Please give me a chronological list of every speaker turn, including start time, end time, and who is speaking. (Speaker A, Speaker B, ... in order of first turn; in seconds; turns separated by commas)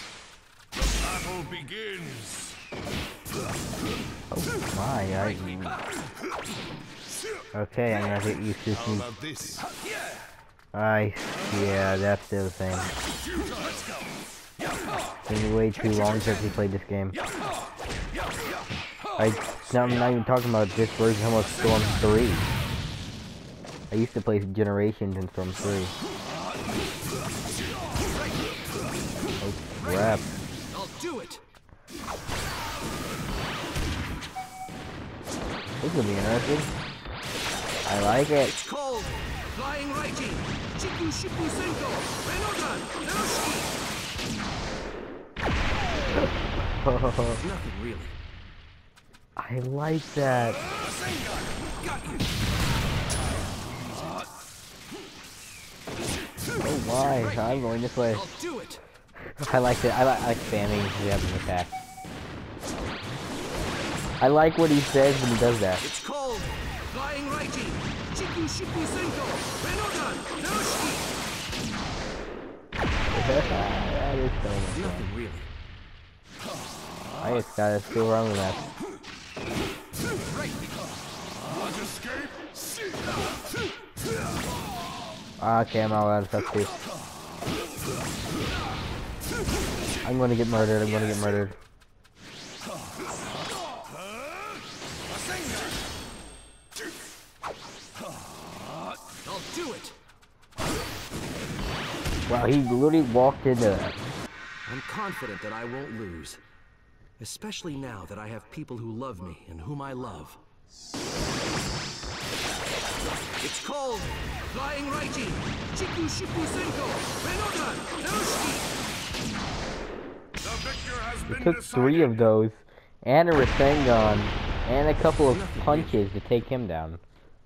Speaker A: 1.1-2.5, Speaker B: 4.3-5.8, Speaker B: 7.5-9.2, Speaker A: 9.2-9.5, Speaker B: 10.7-12.9, Speaker B: 15.3-17.2, Speaker C: 15.9-16.5, Speaker B: 19.2-22.5, Speaker B: 23.9-25.9, Speaker B: 29.4-30.4, Speaker C: 29.8-31.4, Speaker B: 35.8-36.7, Speaker B: 37.9-38.5, Speaker C: 38.5-43.7, Speaker B: 46.1-47.4, Speaker C: 47.4-48.1, Speaker B: 49.4-50.6, Speaker C: 50.7-52.3, Speaker B: 56.6-58.3, Speaker C: 57.0-58.8, Speaker B: 59.4-61.7, Speaker B: 64.2-65.8, Speaker C: 65.8-71.1, Speaker B: 73.1-75.1, Speaker C: 74.7-75.5, Speaker B: 77.2-78.7, Speaker C: 80.3-80.7, Speaker B: 85.4-86.8, Speaker B: 90.0-91.6, Speaker C: 99.1-100.0, Speaker B: 102.3-104.0, Speaker C: 104.7-106.4, Speaker C: 107.2-110.4, Speaker C: 113.4-118.7, Speaker A: 120.4-121.3, Speaker B: 121.2-127.0, Speaker C: 125.3-126.0